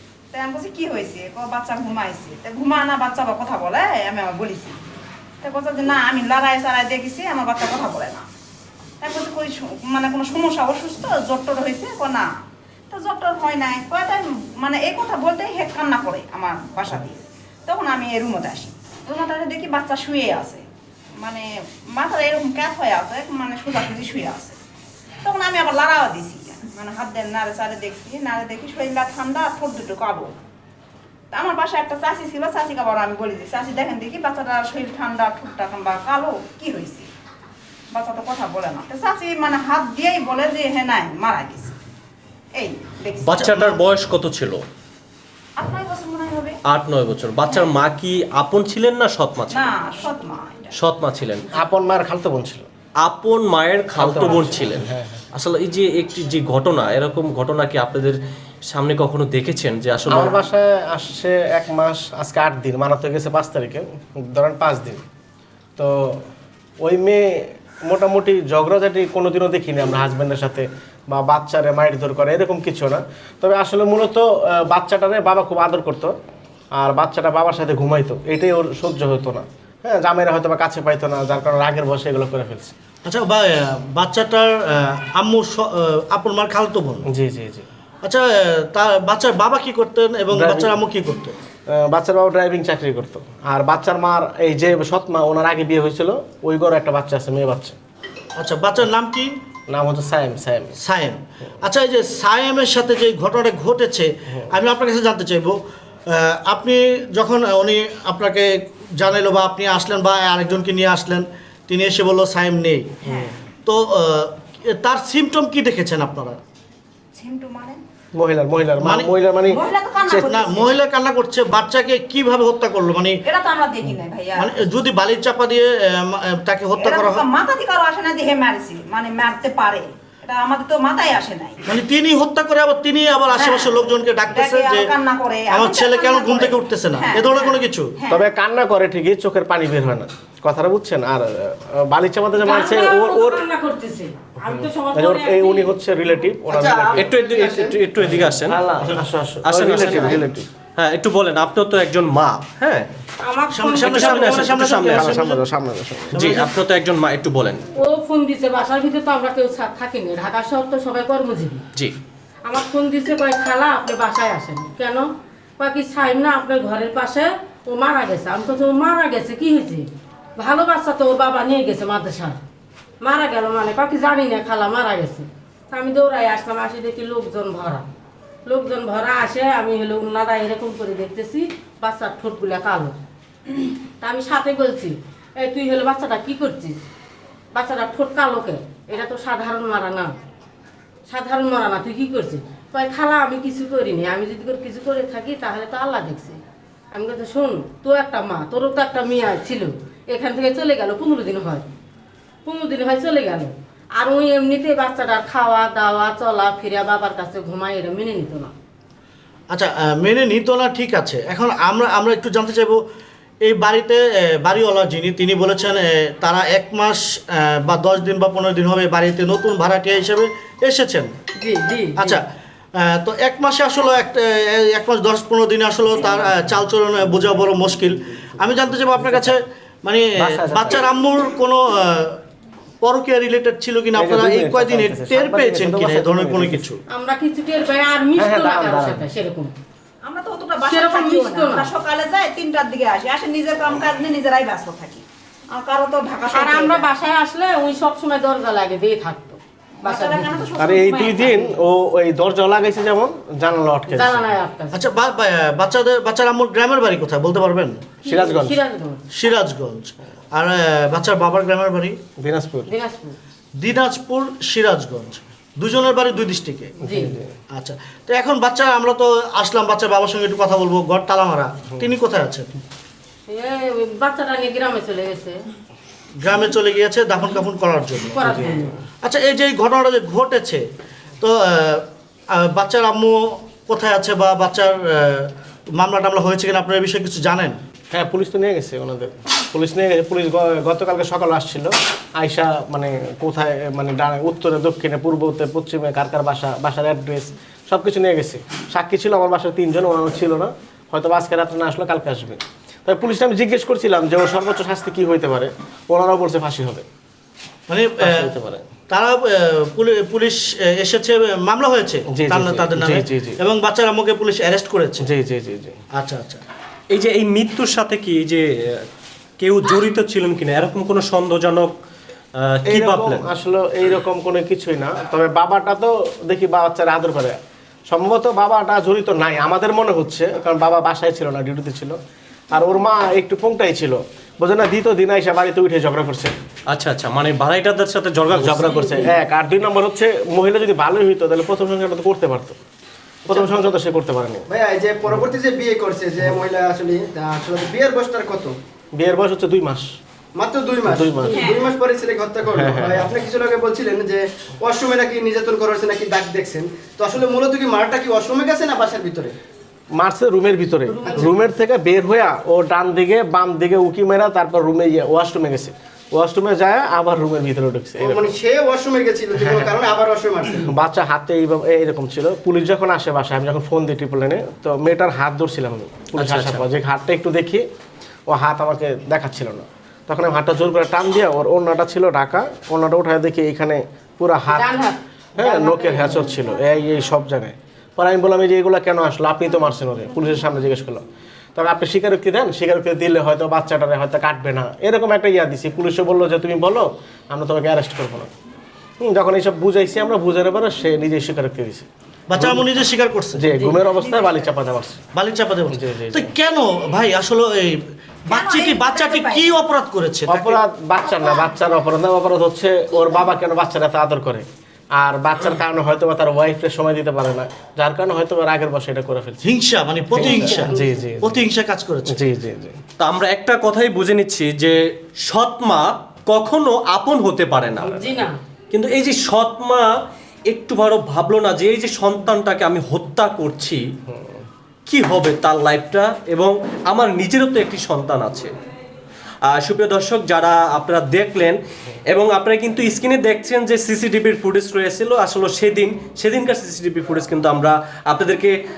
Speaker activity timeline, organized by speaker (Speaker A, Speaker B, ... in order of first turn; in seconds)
Speaker A: 0.3-4.8, 5.4-8.2, 9.0-12.3, 12.9-20.6, 21.2-24.6, 25.2-30.3, 31.3-37.1, 37.9-41.8, 42.5-43.8, 45.6-46.5, 47.5-47.7, 49.5-50.7, 113.0-113.4, 117.1-117.8, 119.5-120.8, 123.2-124.7, 126.8-131.6, 133.3-138.2, 240.0-246.8, 249.8-251.5, 351.3-351.6, 403.9-404.5, 408.3-409.6, 411.1-411.4
Speaker B: 43.2-44.6, 46.7-49.7, 50.8-51.5, 53.0-58.2, 58.7-60.4, 146.9-148.6, 149.4-150.2, 150.8-152.9, 153.8-155.2, 156.1-157.6, 316.9-318.4, 319.4-321.7, 322.4-323.2, 336.7-339.0, 376.1-376.6, 423.0-424.7, 425.3-427.9, 428.7-429.9, 430.5-433.8, 434.9-438.5, 439.5-441.6, 442.1-448.5
Speaker C: 51.5-52.6, 54.0-55.2, 60.1-65.0, 65.8-66.2, 66.8-76.1, 76.8-82.7, 87.0-87.7, 90.3-90.7, 91.7-97.8, 99.7-100.8, 118.1-120.3, 138.1-143.4, 144.5-147.2, 148.2-150.5, 154.8-156.3, 228.9-229.3, 230.2-230.8, 233.9-236.6, 238.2-239.1, 250.6-254.3, 258.0-258.6, 262.2-262.7, 266.8-267.3, 278.2-278.8, 287.9-306.8, 308.0-308.7, 312.1-313.4, 315.0-315.8, 322.6-327.4, 327.9-332.0, 332.5-336.3, 338.3-342.6, 343.2-344.4, 348.9-349.9, 350.9-351.4, 352.5-353.1, 359.9-368.3, 369.3-369.8, 370.6-377.6, 378.3-384.8, 385.4-391.0, 391.5-398.3, 399.0-402.6, 403.3-405.0, 405.7-406.3, 410.3-414.4, 415.0-419.4, 420.1-421.5, 422.1-422.8, 434.1-434.4
Speaker D: 83.0-87.1, 88.0-91.4, 98.3-99.3, 100.8-113.0, 113.6-116.4, 118.8-119.1, 120.3-123.2, 124.4-127.2, 131.7-134.9, 135.5-137.9, 153.5-155.4, 156.1-156.5, 209.5-212.8, 213.4-221.1, 222.0-222.2, 222.8-232.2, 232.8-236.8, 254.7-257.9, 259.1-262.0, 263.6-266.7, 267.5-272.5, 276.2-278.4, 279.0-280.6, 281.2-287.6, 307.7-308.3, 308.9-315.1, 315.9-316.4, 402.3-403.4, 405.1-407.8, 408.3-410.6, 419.4-422.1
Speaker E: 142.4-145.8, 153.2-154.5, 157.8-161.6, 162.4-172.4, 173.0-177.8, 178.4-182.9, 184.0-186.8, 187.5-190.1, 191.1-196.4, 196.9-201.6, 202.4-208.5, 221.4-222.2, 236.9-239.5, 240.7-241.7, 246.3-250.3, 253.9-254.8, 258.0-259.0, 262.7-263.1, 266.8-267.2, 273.2-275.4, 278.1-278.7, 360.9-361.3, 384.5-386.3, 427.9-428.4
Speaker F: 146.5-147.8, 343.3-343.7, 344.5-348.6, 350.3-359.3, 361.0-361.3, 368.0-370.7, 420.2-420.6